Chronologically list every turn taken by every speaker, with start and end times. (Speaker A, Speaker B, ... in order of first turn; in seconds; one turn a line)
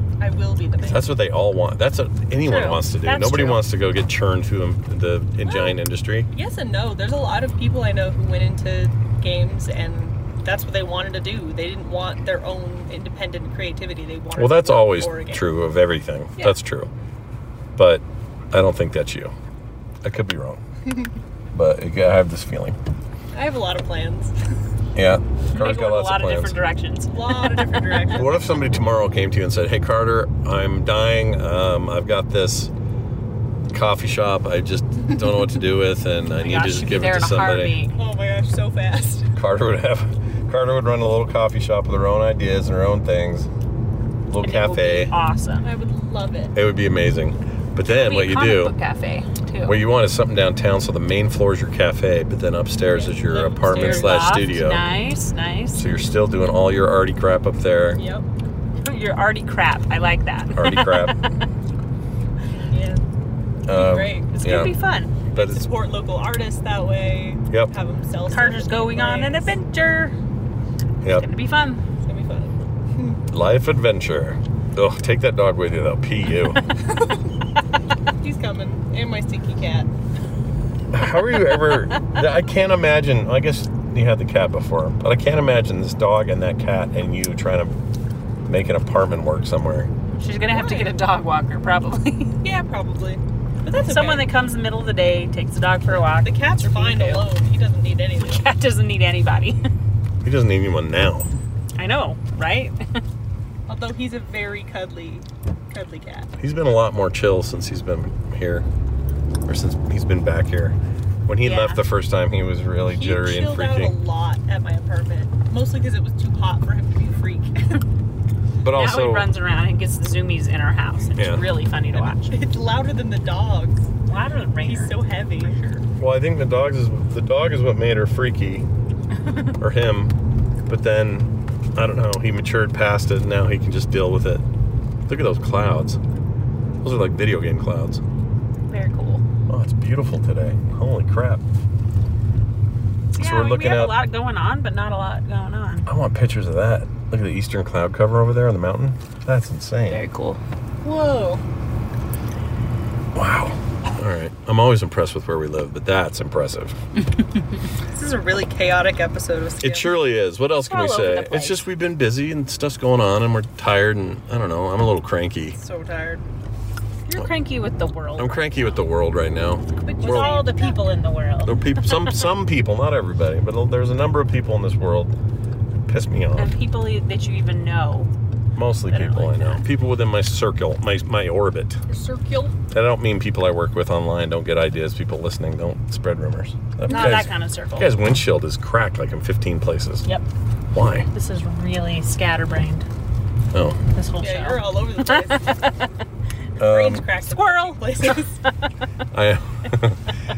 Speaker A: 0.2-1.1
Speaker B: 0.8-6.3
Speaker C: 2.4-3.6
Speaker A: 5.4-5.8
Speaker A: 6.3-15.4
Speaker B: 14.3-16.9
Speaker B: 17.8-19.3
Speaker B: 20.0-20.6
Speaker B: 21.5-22.8
Speaker A: 23.3-24.3
Speaker B: 24.9-26.6
Speaker C: 25.5-28.1
Speaker A: 27.1-28.6
Speaker B: 28.1-32.7
Speaker B: 33.7-37.8
Speaker C: 36.4-37.9
Speaker A: 37.9-39.3
Speaker B: 39.4-43.5
Speaker B: 44.3-45.1
Speaker C: 44.4-45.7
Speaker A: 45.6-46.5
Speaker B: 46.5-48.7
Speaker C: 47.8-49.8
Speaker B: 49.6-54.8
Speaker A: 52.9-54.2
Speaker C: 53.7-55.9
Speaker B: 55.8-58.0
Speaker A: 58.0-58.2
Speaker C: 58.8-61.5
Speaker B: 60.5-61.2
Speaker A: 62.7-63.0
Speaker B: 63.7-64.7
Speaker A: 63.7-64.3
Speaker C: 64.3-65.2
Speaker A: 65.3-69.5
Speaker B: 65.3-65.7
Speaker C: 68.3-70.2
Speaker C: 71.0-71.8
Speaker A: 72.0-73.2
Speaker B: 73.3-76.6
Speaker A: 78.2-79.9
Speaker B: 80.9-87.7
Speaker B: 88.5-89.9
Speaker C: 90.2-92.4
Speaker A: 90.5-91.0
Speaker A: 92.4-94.3
Speaker C: 93.8-97.3
Speaker A: 96.1-98.4
Speaker C: 98.2-99.6
Speaker B: 100.2-101.3
Speaker C: 101.8-102.8
Speaker A: 103.7-106.3
Speaker B: 106.4-108.7
Speaker B: 109.5-114.0
Speaker C: 111.4-111.8
Speaker A: 112.9-117.8
Speaker B: 118.6-119.3
Speaker C: 118.7-122.4
Speaker B: 121.2-121.4
Speaker A: 122.0-123.8
Speaker C: 124.0-125.0
Speaker A: 124.6-125.8
Speaker B: 126.0-128.7
Speaker B: 129.6-130.1
Speaker B: 130.7-134.4
Speaker B: 135.1-136.0
Speaker B: 136.8-138.0
Speaker C: 138.7-139.2
Speaker B: 139.5-141.4
Speaker C: 143.1-145.9
Speaker B: 143.2-143.9
Speaker B: 145.9-150.0
Speaker C: 149.9-150.4
Speaker A: 150.8-151.4
Speaker B: 153.1-156.8
Speaker A: 157.9-159.9
Speaker B: 159.6-165.6
Speaker C: 160.5-161.6
Speaker A: 165.6-166.2
Speaker C: 167.1-168.4
Speaker B: 168.2-170.3
Speaker A: 169.8-170.8
Speaker C: 170.0-171.6
Speaker B: 171.4-175.1
Speaker B: 175.8-176.5
Speaker C: 176.3-178.1
Speaker B: 178.6-181.8
Speaker C: 178.9-179.6
Speaker A: 181.9-182.6
Speaker B: 182.7-190.1
Speaker C: 186.8-187.9
Speaker B: 190.7-191.1
Speaker C: 191.1-192.9
Speaker B: 193.5-193.8
Speaker C: 193.9-195.4
Speaker A: 194.2-195.6
Speaker A: 196.6-198.3
Speaker B: 196.6-197.1
Speaker C: 197.2-198.2
Speaker B: 199.1-200.0